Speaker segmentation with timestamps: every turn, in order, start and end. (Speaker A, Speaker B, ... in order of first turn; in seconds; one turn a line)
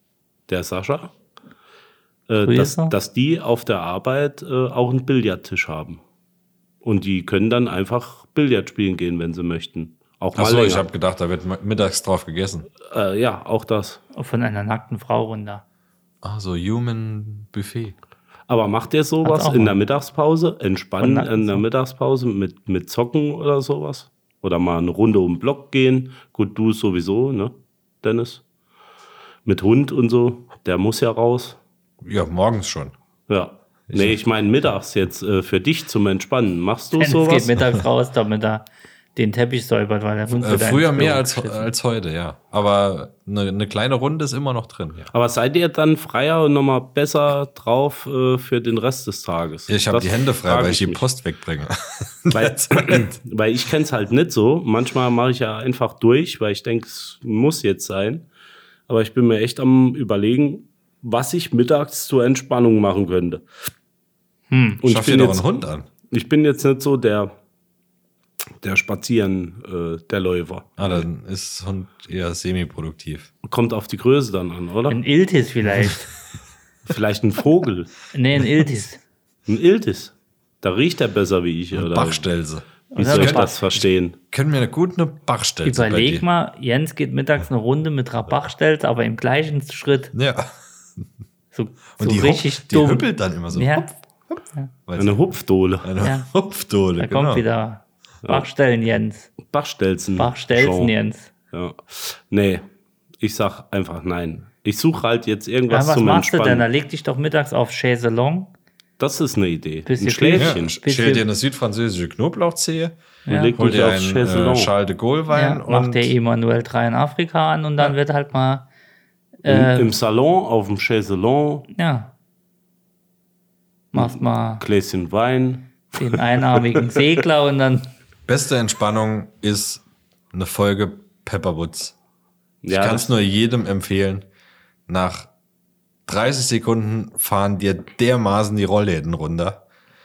Speaker A: 0.5-1.1
Speaker A: 2.3-6.0
Speaker B: 2.4-2.9
Speaker A: 6.8-10.8
Speaker C: 10.3-12.7
Speaker A: 12.8-14.0
Speaker B: 14.1-15.6
Speaker C: 16.2-17.9
Speaker A: 18.5-28.4
Speaker B: 19.2-19.8
Speaker B: 21.0-21.6
Speaker A: 29.4-31.6
Speaker C: 32.0-32.9
Speaker A: 33.3-37.6
Speaker C: 33.9-34.2
Speaker B: 37.0-41.7
Speaker C: 40.3-45.1
Speaker A: 45.1-51.0
Speaker C: 49.7-53.1
Speaker A: 52.3-58.2
Speaker A: 58.9-63.4
Speaker B: 64.5-64.8
Speaker A: 64.8-65.5
Speaker C: 64.8-65.9
Speaker A: 66.1-67.3
Speaker A: 68.6-71.0
Speaker C: 70.8-73.3
Speaker A: 73.4-75.0
Speaker B: 74.9-76.1
Speaker A: 76.9-77.9
Speaker B: 78.1-79.0
Speaker A: 79.5-82.3
Speaker C: 81.7-86.2
Speaker B: 82.9-83.7
Speaker A: 83.0-84.2
Speaker B: 85.6-90.1
Speaker C: 90.1-90.4
Speaker B: 91.5-93.9
Speaker C: 92.0-97.5
Speaker A: 95.0-95.9
Speaker B: 96.0-96.3
Speaker B: 97.0-99.3
Speaker A: 99.4-101.0
Speaker B: 100.2-101.3
Speaker A: 101.5-102.6
Speaker A: 103.2-106.7
Speaker B: 105.7-108.5
Speaker A: 109.0-110.8
Speaker B: 109.8-111.3
Speaker C: 110.3-113.0
Speaker B: 113.2-113.6
Speaker A: 113.3-114.7
Speaker C: 113.5-116.1
Speaker B: 115.3-118.7
Speaker B: 119.4-119.9
Speaker A: 119.4-121.7
Speaker B: 121.7-122.1
Speaker B: 123.9-124.6
Speaker A: 123.9-126.2
Speaker B: 125.9-127.9
Speaker C: 128.3-131.9
Speaker A: 132.6-133.1
Speaker C: 132.7-134.2
Speaker C: 134.9-135.3
Speaker C: 136.1-139.6